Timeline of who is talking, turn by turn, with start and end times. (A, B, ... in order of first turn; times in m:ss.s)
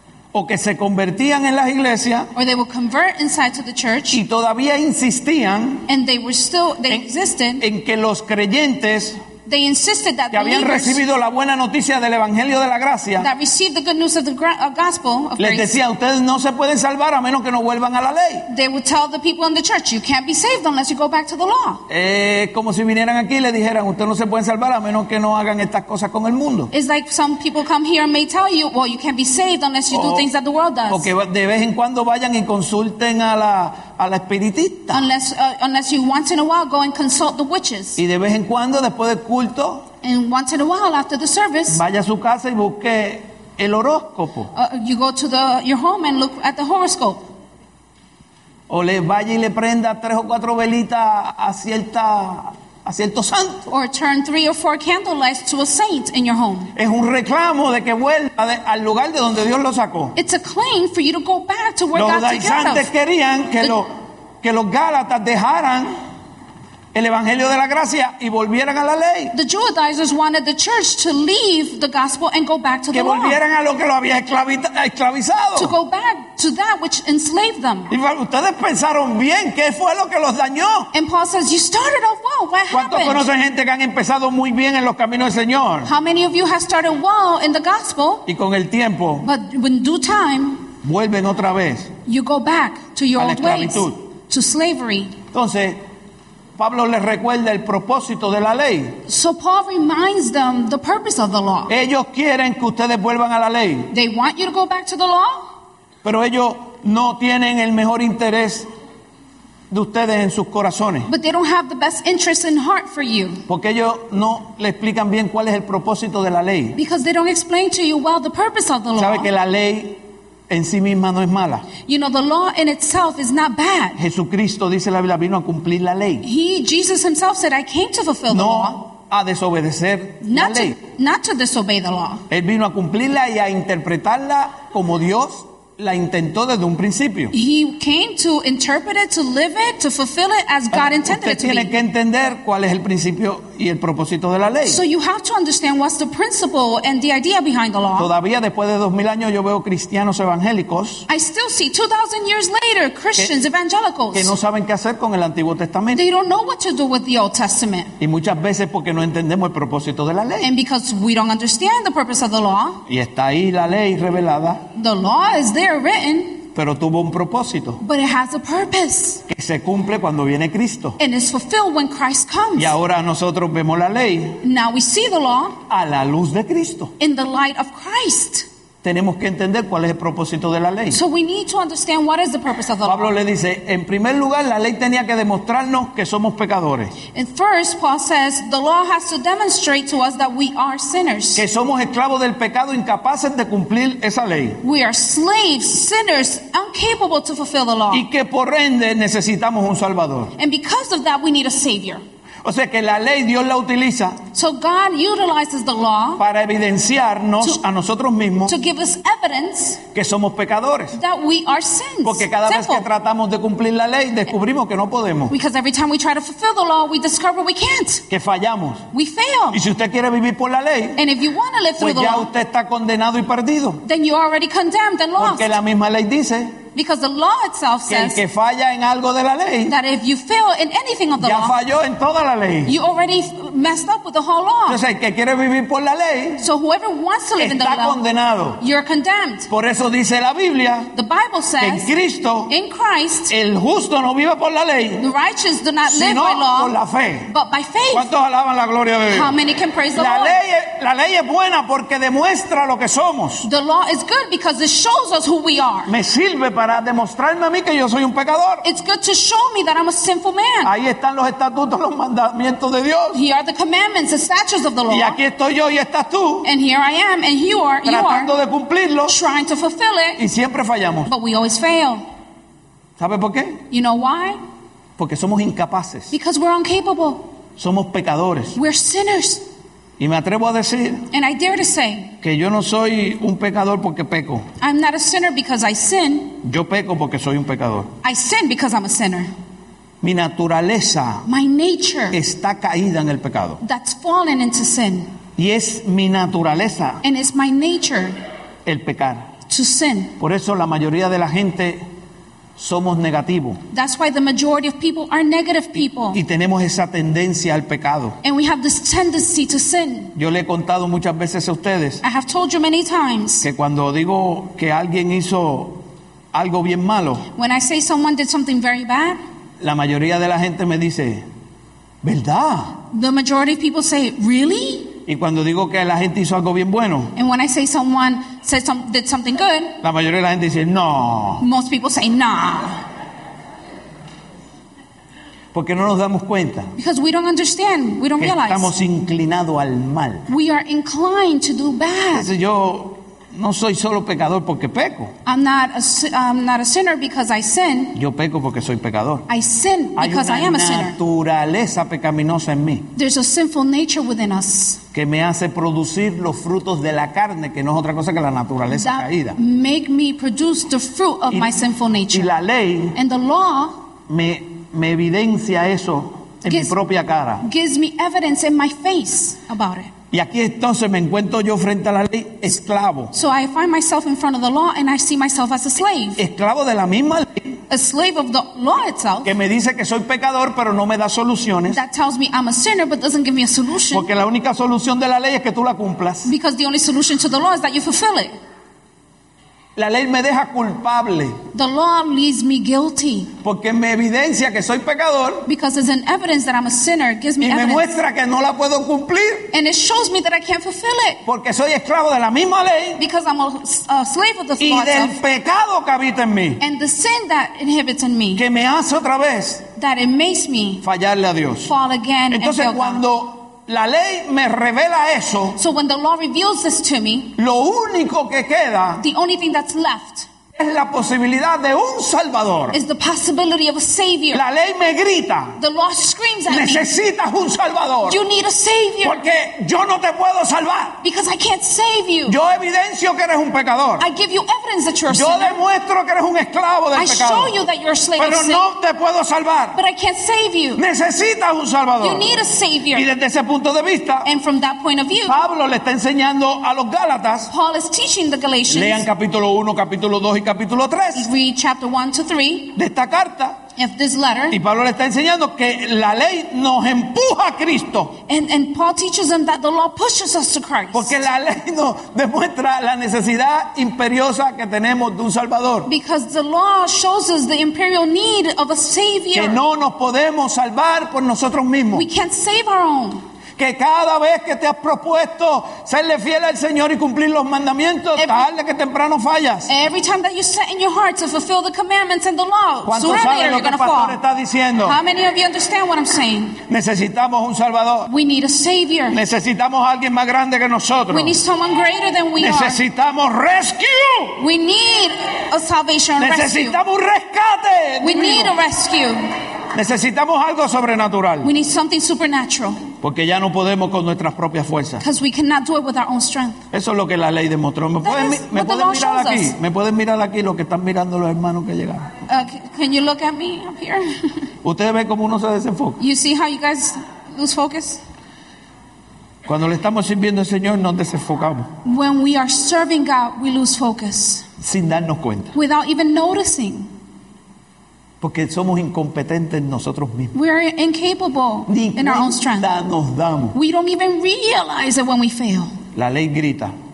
0:00.3-0:02.3 A
0:02.3-0:04.2 B
0:04.1-0:05.9 A
0:05.9-0:07.6 B
0:07.6-0:09.2 A
0:09.4-0:11.0 B
0:10.3-0:13.3 A
0:13.2-0:15.7 B
0:15.4-0:18.5 A
0:18.5-0:21.8 B
0:21.9-0:26.7 A
0:26.7-0:31.1 B
0:29.9-0:30.3 A
0:30.9-0:35.1 A
0:34.9-0:38.0 B
0:38.0-0:39.9 A
0:40.0-0:41.8 B
0:41.7-0:44.5 A
0:44.5-0:47.2 B
0:48.7-0:53.7 A
0:53.7-0:56.7 B
0:56.8-1:00.2 A
1:00.2-1:02.9 B
1:01.9-1:03.9 A
1:04.4-1:05.9 A
1:06.9-1:09.3 A
1:09.3-1:13.4 B
1:12.9-1:15.7 A
1:15.6-1:17.9 B
1:17.9-1:20.9 A
1:20.9-1:23.3 B
1:22.7-1:25.9 A
1:25.8-1:28.3 B
1:28.3-1:29.3 A
1:29.2-1:30.7 B
1:30.8-1:31.9 A
1:32.1-1:35.2 B
1:33.2-1:34.0 A
1:35.3-1:35.8 A
1:36.6-1:39.0 A
1:39.1-1:41.7 B
1:41.7-1:43.9 A
1:43.9-1:45.5 B
1:46.0-1:48.7 A
1:49.7-1:51.1 A
1:51.1-1:53.4 B
1:53.5-1:56.8 A
1:56.8-1:59.3 B
1:59.0-2:01.7 A
2:01.8-2:04.0 B
2:04.0-2:06.2 A
2:06.2-2:08.8 B
2:08.3-2:10.8 A
2:10.2-2:12.2 B
2:12.3-2:17.3 A
2:17.3-2:21.7 B
2:20.7-2:24.8 A
2:24.6-2:28.1 B
2:28.0-2:31.1 A
2:31.1-2:34.3 B
2:34.1-2:36.0 A
2:35.9-2:37.9 B
2:38.0-2:40.5 A
2:40.4-2:42.8 B
2:42.9-2:44.6 A
2:44.7-2:46.4 B
2:46.5-2:47.8 A
2:47.8-2:49.2 B
2:49.3-2:51.0 A
2:51.0-2:52.8 B
2:52.6-2:54.4 A
2:54.4-2:55.6 B
2:55.7-2:56.9 A
2:57.0-2:58.5 B
2:58.8-3:01.0 A
3:00.9-3:03.1 B
3:02.8-3:06.9 A
3:07.1-3:11.4 B
3:11.4-3:14.6 A
3:14.6-3:18.1 B
3:17.9-3:20.3 A
3:20.4-3:22.0 B
3:22.4-3:24.2 A
3:24.3-3:26.2 B
3:26.2-3:28.5 A
3:28.4-3:29.8 B
3:29.9-3:31.0 A
3:30.9-3:32.8 B
3:32.0-3:35.3 A
3:35.3-3:38.0 B
3:38.1-3:38.8 A
3:38.9-3:39.6 B
3:39.5-3:41.0 A
3:41.0-3:42.3 B
3:41.8-3:43.8 A
3:43.8-3:45.6 B
3:45.2-3:46.6 A
3:46.7-3:48.2 B
3:47.9-3:49.7 A
3:49.6-3:51.6 B
3:51.2-3:52.8 A
3:52.6-3:54.8 B
3:54.7-3:56.4 A
3:56.4-3:58.0 B
3:57.4-3:58.6 A
3:58.6-3:59.5 B
3:59.5-4:00.9 A
4:00.9-4:01.9 B
4:01.6-4:02.5 A
4:02.5-4:03.3 B
4:03.3-4:05.0 A
4:05.0-4:06.7 B
4:05.9-4:07.3 A
4:07.2-4:08.1 B
4:07.9-4:09.3 A
4:09.1-4:10.4 B
4:09.9-4:13.5 A
4:13.4-4:15.9 B
4:15.8-4:18.6 A
4:18.6-4:20.7 B
4:20.6-4:23.2 A
4:23.1-4:25.2 B
4:24.9-4:26.5 A
4:26.4-4:28.3 B
4:27.8-4:29.2 A
4:29.1-4:30.2 B
4:30.2-4:31.1 A
4:31.1-4:32.0 B
4:33.0-4:33.6 A
4:33.7-4:34.4 B
4:35.0-4:36.1 A
4:36.1-4:37.3 B
4:37.6-4:38.6 A
4:38.6-4:39.4 B
4:40.0-4:41.1 A
4:41.1-4:42.2 B
4:42.2-4:44.5 A
4:44.6-4:46.4 B
4:46.4-4:47.9 A
4:48.0-4:49.3 B
4:50.0-4:51.2 A
4:51.2-4:52.2 B
4:52.1-4:53.6 A
4:53.6-4:55.1 B
4:55.4-4:57.0 A
4:57.0-4:58.2 B
4:58.6-4:59.3 A
4:59.5-5:00.2 B
5:00.2-5:01.8 A
5:02.6-5:03.6 A
5:03.7-5:06.2 B
5:06.1-5:08.2 A
5:08.2-5:10.1 B
5:10.2-5:12.0 A
5:12.0-5:13.5 B
5:13.4-5:17.3 A
5:17.3-5:19.2 B
5:19.6-5:21.2 A
5:22.0-5:22.8 A
5:22.9-5:25.0 B
5:25.1-5:27.1 A
5:27.2-5:29.8 B
5:29.8-5:31.4 A
5:31.4-5:32.8 B
5:35.5-5:36.7 A
5:36.8-5:38.7 B
5:38.2-5:40.3 A
5:40.3-5:42.3 B
5:42.1-5:45.1 A
5:45.2-5:48.0 B
5:47.9-5:49.3 A
5:49.3-5:51.0 B
5:50.0-5:52.9 A
5:52.9-5:54.8 B
5:54.9-5:59.4 A
5:58.7-6:02.3 B
6:02.1-6:03.0 A
6:02.9-6:03.7 B
6:04.1-6:07.4 A
6:06.4-6:06.8 B
6:07.4-6:09.9 B
6:10.1-6:13.1 A
6:13.1-6:16.2 B
6:16.2-6:17.6 A
6:17.7-6:19.3 B
6:19.2-6:21.8 A
6:21.7-6:24.1 B
6:23.9-6:26.3 A
6:26.2-6:28.3 B
6:29.8-6:31.4 A
6:31.5-6:33.3 B
6:33.4-6:35.5 A
6:35.5-6:37.8 B
6:37.4-6:39.5 A
6:39.5-6:41.2 B
6:41.2-6:43.0 A
6:43.0-6:45.2 B
6:44.6-6:46.6 A
6:46.6-6:48.4 B
6:48.3-6:49.7 A
6:49.8-6:50.8 B
6:50.8-6:51.7 A
6:51.6-6:53.0 B
6:52.3-6:55.6 A
6:55.6-6:57.4 B
6:57.4-6:59.0 A
6:59.0-7:00.3 B
7:00.6-7:02.8 A
7:02.7-7:04.4 B
7:04.3-7:05.6 A
7:05.6-7:06.9 B
7:06.5-7:08.2 A
7:08.1-7:09.2 B
7:09.0-7:11.0 A
7:11.0-7:12.4 B
7:12.3-7:14.1 A
7:14.0-7:15.6 B
7:15.1-7:17.6 A
7:16.9-7:18.6 B
7:18.2-7:19.8 A
7:19.7-7:20.8 B
7:20.8-7:22.3 A
7:22.0-7:23.1 B
7:22.9-7:24.3 A
7:24.2-7:25.4 B
7:25.3-7:27.5 A
7:27.5-7:29.1 B
7:28.7-7:31.3 A
7:31.2-7:32.8 B
7:32.7-7:33.6 A
7:33.8-7:34.6 B
7:34.5-7:38.2 A
7:38.3-7:41.2 B
7:40.9-7:45.9 A
7:45.8-7:49.6 B
7:49.3-7:52.1 A
7:51.9-7:53.2 B
7:53.6-7:59.7 A
7:58.2-7:58.4 B
7:59.7-8:04.2 B
8:02.8-8:05.0 A
8:04.8-8:06.6 B
8:06.7-8:08.1 A
8:08.1-8:09.2 B
8:09.1-8:11.3 A
8:11.1-8:12.8 B
8:12.4-8:14.4 A
8:14.4-8:16.8 B
8:16.2-8:18.6 A
8:18.0-8:19.3 B
8:19.7-8:21.5 A
8:21.4-8:22.8 B
8:23.0-8:25.0 A
8:25.0-8:26.6 B
8:26.7-8:32.1 A
8:28.0-8:29.6 B
8:32.3-8:34.5 B
8:34.6-8:36.0 A
8:36.0-8:38.0 B
8:39.4-8:41.7 A
8:41.8-8:44.4 B
8:44.6-8:45.6 A
8:45.6-8:46.9 B
8:48.2-8:50.4 A
8:50.3-8:52.7 B
8:51.7-8:53.6 A
8:53.5-8:55.7 B
8:55.9-8:56.7 A